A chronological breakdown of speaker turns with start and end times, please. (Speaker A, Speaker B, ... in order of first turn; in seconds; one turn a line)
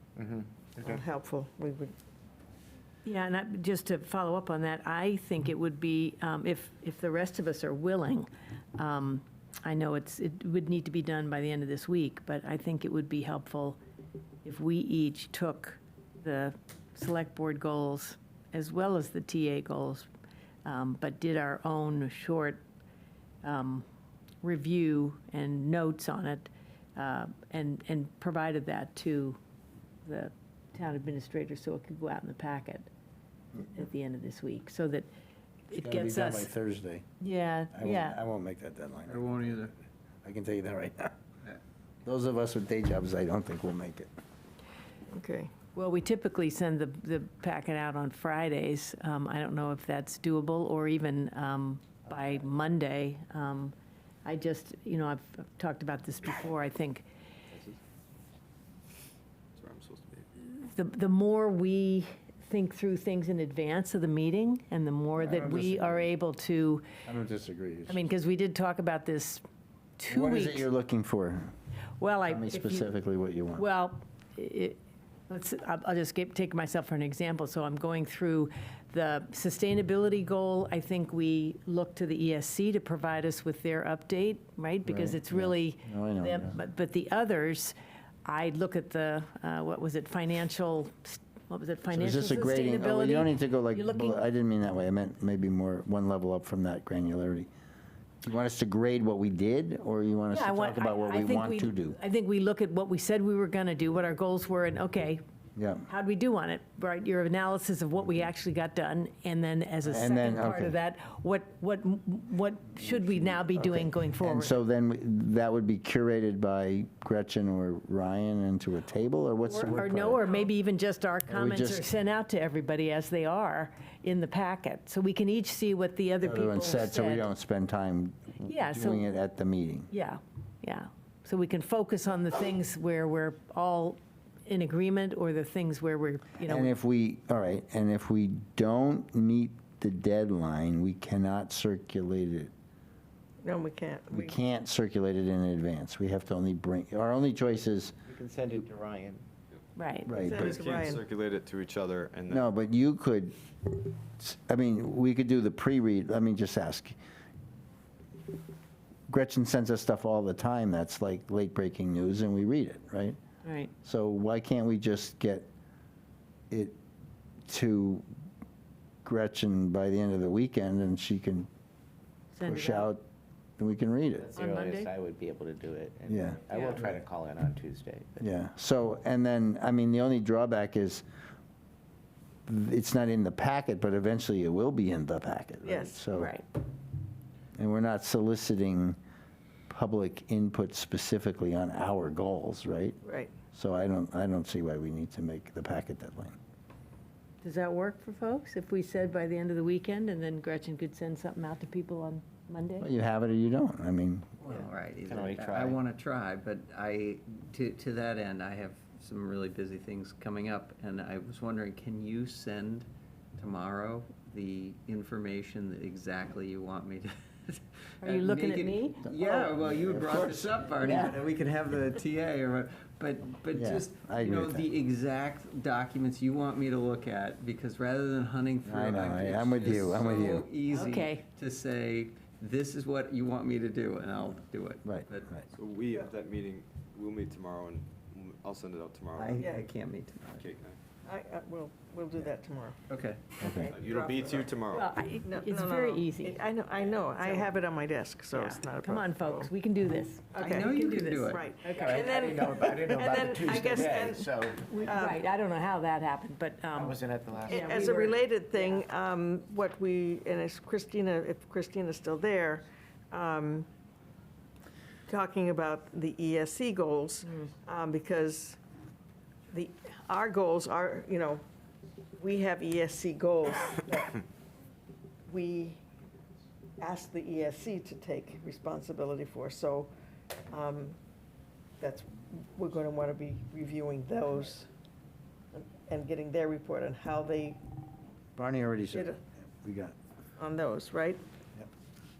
Speaker A: 0.1-1.0
Speaker B: 0.8-1.9
Speaker C: 3.0-13.8
Speaker C: 14.4-20.1
Speaker C: 20.6-22.6
Speaker C: 23.4-23.9
Speaker C: 24.4-29.4
Speaker C: 30.0-32.9
Speaker C: 33.6-35.1
Speaker C: 35.7-36.5
Speaker D: 35.7-37.0
Speaker C: 37.2-38.2
Speaker D: 37.7-39.7
Speaker E: 39.1-39.7
Speaker D: 40.2-41.1
Speaker D: 42.0-44.1
Speaker B: 45.1-45.5
Speaker C: 45.7-53.7
Speaker C: 54.2-57.0
Speaker F: 57.5-57.8
Speaker F: 59.5-60.3
Speaker C: 60.4-66.8
Speaker D: 65.2-66.0
Speaker D: 67.0-68.0
Speaker C: 67.9-69.4
Speaker C: 70.0-70.7
Speaker D: 70.1-71.5
Speaker C: 72.0-72.9
Speaker D: 72.3-73.7
Speaker C: 73.5-94.2
Speaker D: 84.8-86.6
Speaker D: 91.9-97.5
Speaker D: 98.2-102.0
Speaker C: 100.3-105.2
Speaker D: 105.5-105.8
Speaker C: 105.8-114.5
Speaker D: 109.8-110.8
Speaker D: 113.5-120.4
Speaker C: 119.4-127.3
Speaker D: 121.3-121.9
Speaker D: 126.2-129.9
Speaker C: 128.4-129.0
Speaker C: 129.9-136.7
Speaker D: 136.4-142.5
Speaker B: 143.4-144.3
Speaker D: 144.1-147.9
Speaker A: 148.1-149.2
Speaker C: 149.8-150.1
Speaker D: 150.1-150.6
Speaker B: 150.1-151.0
Speaker F: 150.3-152.5
Speaker D: 152.3-157.0
Speaker D: 159.1-163.2
Speaker C: 163.4-163.7
Speaker D: 163.8-165.5
Speaker D: 166.5-166.8
Speaker D: 167.5-168.1
Speaker D: 169.0-171.5
Speaker C: 172.3-172.9
Speaker D: 172.4-173.0
Speaker D: 173.6-174.3
Speaker A: 174.2-178.2
Speaker C: 174.3-174.9
Speaker D: 176.1-176.4
Speaker C: 176.5-176.8
Speaker D: 178.2-181.0
Speaker D: 182.5-186.3
Speaker B: 185.7-186.0
Speaker C: 186.1-186.4
Speaker D: 187.6-189.0
Speaker D: 189.7-193.0
Speaker B: 193.0-193.3
Speaker D: 193.5-196.4
Speaker C: 197.4-202.9
Speaker D: 202.8-204.3
Speaker E: 204.4-235.4
Speaker A: 205.0-205.8
Speaker C: 218.0-219.1
Speaker D: 219.1-221.2
Speaker D: 223.5-224.7
Speaker D: 228.6-230.5
Speaker C: 230.7-231.2
Speaker D: 234.8-235.4
Speaker F: 235.5-239.5
Speaker E: 239.1-240.4
Speaker B: 239.4-239.7
Speaker F: 240.3-240.7
Speaker B: 241.0-242.8
Speaker E: 242.9-243.2
Speaker B: 243.4-244.6
Speaker D: 243.4-243.8
Speaker F: 243.7-244.9
Speaker C: 244.7-246.4
Speaker B: 245.2-249.5
Speaker C: 247.1-247.5
Speaker C: 248.3-252.5
Speaker B: 250.3-254.3
Speaker E: 250.4-251.4
Speaker A: 251.7-254.8
Speaker C: 254.7-258.8
Speaker B: 254.8-255.2
Speaker A: 256.7-257.9
Speaker B: 257.5-263.7
Speaker B: 265.1-268.6
Speaker B: 269.5-271.4
Speaker B: 272.2-274.2
Speaker B: 275.3-275.8
Speaker B: 276.8-279.9
Speaker B: 280.5-281.0
Speaker B: 281.8-284.7
Speaker B: 285.5-287.6
Speaker D: 288.4-289.9
Speaker B: 288.9-289.2
Speaker B: 290.4-291.2